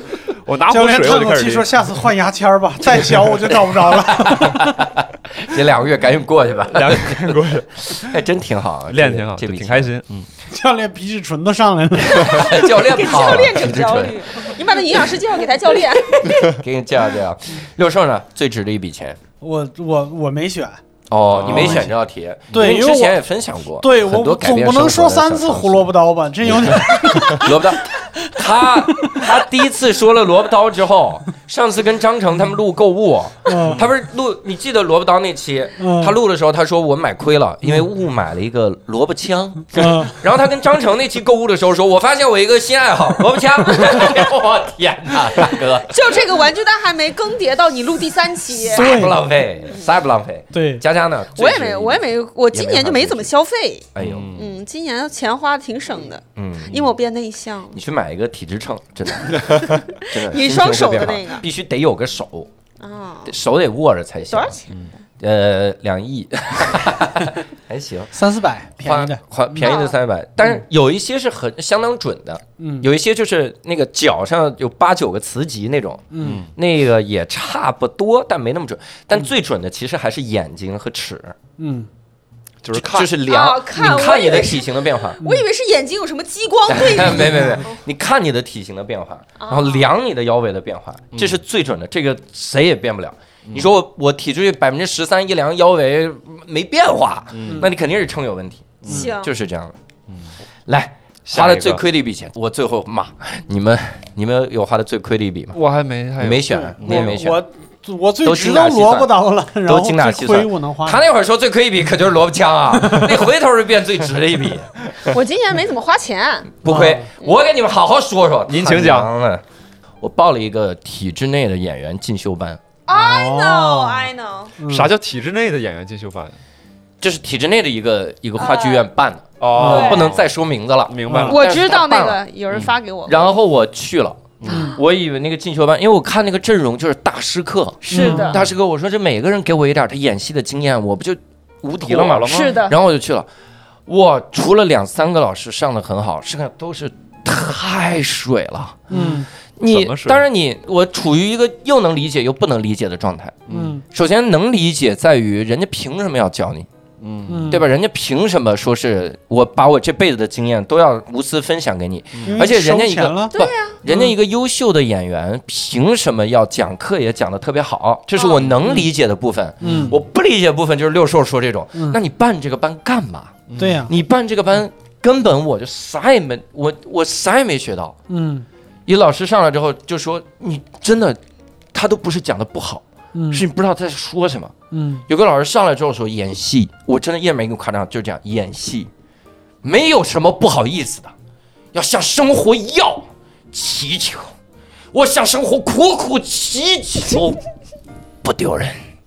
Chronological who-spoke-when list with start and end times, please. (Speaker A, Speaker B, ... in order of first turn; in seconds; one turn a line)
Speaker A: 0.3-1.7
Speaker B: 0.7-4.8
Speaker C: 3.5-9.9
Speaker A: 6.7-8.1
Speaker A: 8.9-10.3
Speaker B: 10.5-12.8
Speaker C: 12.1-14.5
Speaker D: 12.2-16.6
Speaker C: 16.1-19.2
Speaker B: 19.4-20.8
Speaker C: 21.1-25.9
Speaker A: 21.3-21.9
Speaker B: 21.4-21.9
Speaker B: 22.5-23.2
Speaker B: 23.8-29.3
Speaker C: 26.4-45.9
Speaker B: 33.5-33.8
Speaker B: 35.8-36.2
Speaker B: 39.7-40.1
Speaker D: 45.8-48.9
Speaker B: 48.6-49.3
Speaker C: 48.6-53.3
Speaker B: 50.5-50.8
Speaker D: 51.3-57.8
Speaker C: 53.9-54.3
Speaker A: 54.0-54.5
Speaker C: 56.4-56.8
Speaker C: 57.7-62.5
Speaker D: 59.6-61.4
Speaker D: 62.8-63.3
Speaker C: 63.2-64.6
Speaker D: 64.3-64.7
Speaker C: 65.2-68.1
Speaker B: 68.1-69.2
Speaker C: 68.8-81.3
Speaker D: 69.6-70.0
Speaker B: 72.6-72.9
Speaker B: 76.1-76.4
Speaker A: 76.2-76.5
Speaker B: 81.6-81.9
Speaker A: 82.6-83.2
Speaker C: 82.7-85.2
Speaker D: 83.2-87.7
Speaker C: 86.7-99.8
Speaker D: 89.4-89.9
Speaker A: 91.1-91.4
Speaker A: 97.3-97.7
Speaker A: 98.8-99.1
Speaker D: 98.9-99.3
Speaker C: 100.7-105.6
Speaker A: 101.2-101.8
Speaker A: 105.5-107.2
Speaker C: 106.2-107.4
Speaker B: 106.5-111.0
Speaker C: 108.2-114.7
Speaker B: 112.9-113.2
Speaker D: 115.1-116.5
Speaker C: 116.6-119.4
Speaker B: 116.7-117.1
Speaker A: 118.5-119.1
Speaker C: 120.0-122.6
Speaker D: 122.9-124.5
Speaker B: 122.9-124.9
Speaker A: 124.7-126.3
Speaker C: 127.0-132.2
Speaker D: 128.4-128.9
Speaker A: 129.4-130.3
Speaker B: 129.6-130.0
Speaker D: 129.6-130.1
Speaker A: 130.9-131.4
Speaker B: 131.1-131.3
Speaker D: 131.3-133.3
Speaker C: 133.1-143.3
Speaker A: 134.4-134.7
Speaker D: 134.5-134.8
Speaker B: 134.5-134.8
Speaker D: 137.9-138.4
Speaker B: 137.9-138.4
Speaker A: 138.0-138.5
Speaker A: 141.8-142.6
Speaker D: 142.2-142.8
Speaker C: 143.9-148.8
Speaker B: 148.9-149.3
Speaker A: 148.9-150.2
Speaker C: 149.6-156.7
Speaker A: 153.5-153.8
Speaker B: 153.5-153.8
Speaker A: 157.0-157.6
Speaker B: 157.3-157.6
Speaker C: 157.5-177.9
Speaker B: 162.2-163.3
Speaker D: 163.3-163.8
Speaker B: 163.8-164.1
Speaker D: 168.1-168.4
Speaker A: 169.6-169.9
Speaker B: 169.6-170.0
Speaker A: 173.5-173.9
Speaker B: 173.6-173.9
Speaker B: 178.1-178.5
Speaker C: 178.8-181.2
Speaker C: 181.7-184.5
Speaker B: 183.1-183.4
Speaker B: 184.7-185.0
Speaker C: 185.1-188.9
Speaker C: 189.6-191.1
Speaker C: 191.7-194.3
Speaker C: 194.9-197.4
Speaker C: 198.2-198.8